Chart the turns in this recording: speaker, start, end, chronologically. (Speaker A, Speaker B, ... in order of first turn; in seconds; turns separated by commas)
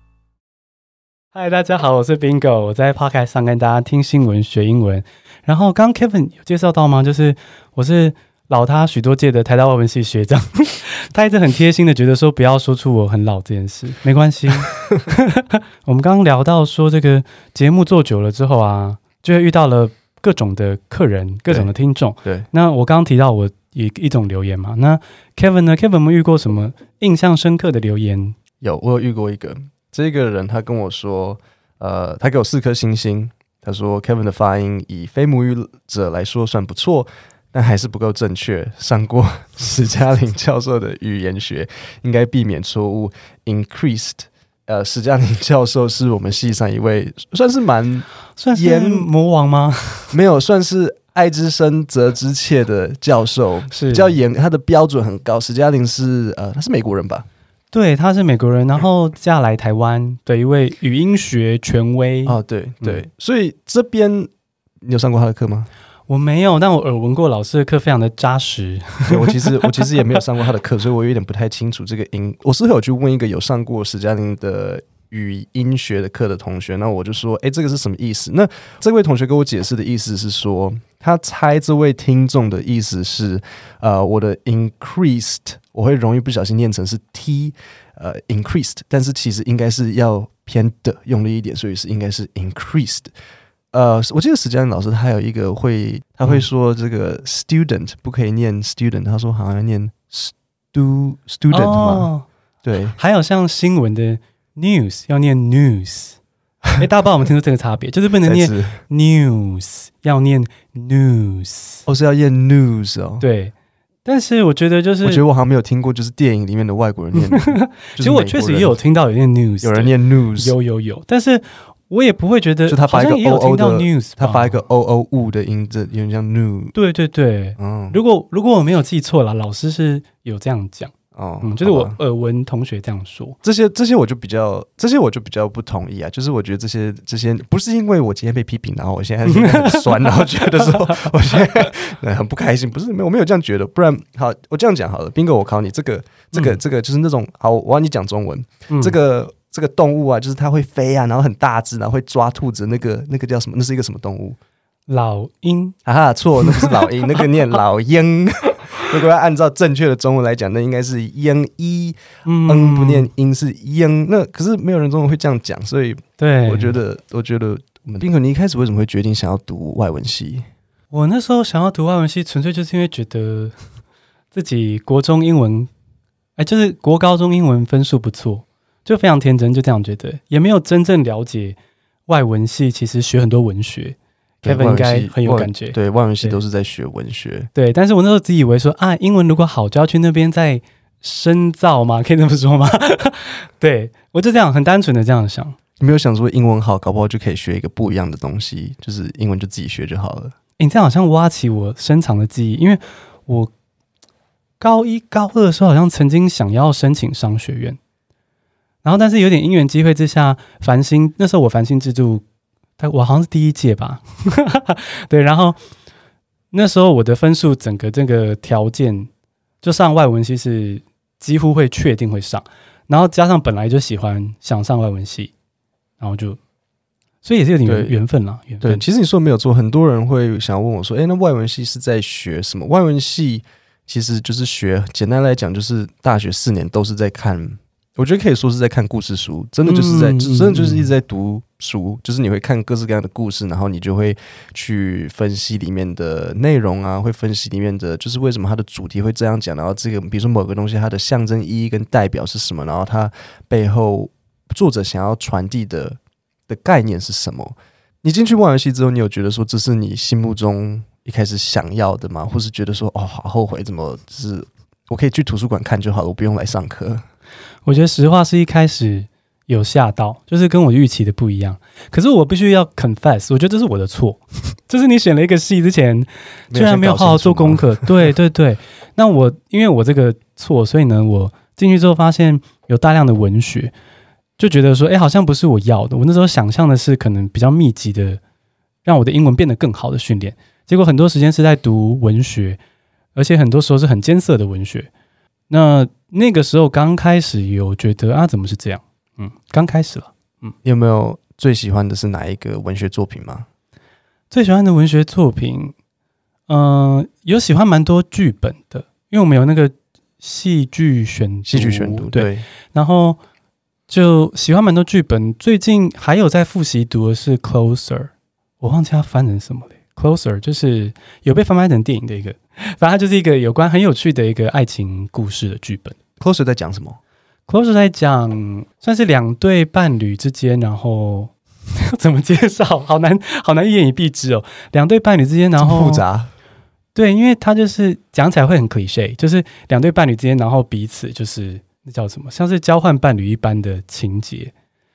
Speaker A: 1.3-28.4, Speaker B: 28.6-49.1, Speaker A: 48.4-50.1, Speaker B: 50.1-57.3, Speaker A: 53.7-54.2, Speaker A: 57.7-63.0, Speaker B: 62.3-64.3, Speaker B: 64.8-65.7, Speaker A: 66.1-70.0, Speaker B: 69.1-93.1, Speaker B: 93.7-102.1, Speaker A: 101.5-102.2, Speaker B: 102.6-103.0, Speaker A: 103.0-106.2, Speaker A: 106.8-111.8, Speaker B: 108.2-108.8, Speaker B: 111.9-113.2, Speaker A: 113.2-113.5, Speaker A: 114.0-115.2, Speaker B: 115.0-118.8, Speaker A: 117.3-124.6, Speaker B: 119.6-120.5, Speaker B: 122.7-126.8, Speaker A: 126.8-133.4, Speaker B: 127.6-128.0, Speaker B: 131.1-132.0, Speaker B: 133.4-154.4, Speaker A: 139.3-140.7, Speaker A: 148.7-148.9, Speaker A: 154.9-155.8, Speaker B: 155.8-170.4, Speaker A: 156.4-156.9, Speaker A: 162.3-163.1, Speaker A: 166.2-166.8, Speaker A: 170.9-173.6, Speaker A: 174.3-175.7, Speaker A: 176.4-181.6, Speaker A: 182.1-186.4, Speaker B: 184.4-187.5, Speaker A: 187.6-195.6, Speaker B: 195.8-200.3, Speaker A: 200.6-203.5, Speaker A: 204.6-207.8, Speaker A: 208.8-212.2, Speaker A: 212.8-215.6, Speaker A: 216.5-219.1, Speaker A: 219.6-225.3, Speaker A: 226.0-226.4, Speaker A: 227.2-228.8, Speaker B: 227.7-228.0, Speaker B: 228.6-267.0, Speaker A: 239.6-240.9, Speaker A: 267.6-283.7, Speaker B: 276.5-278.1, Speaker A: 284.4-288.2, Speaker A: 288.9-292.6, Speaker A: 293.2-294.9, Speaker A: 295.5-300.5, Speaker B: 300.6-303.5, Speaker A: 304.3-305.7, Speaker A: 306.5-313.2, Speaker B: 311.5-312.5, Speaker A: 313.9-326.0, Speaker B: 326.2-327.0, Speaker A: 327.5-336.0, Speaker B: 335.6-336.3, Speaker A: 336.9-344.5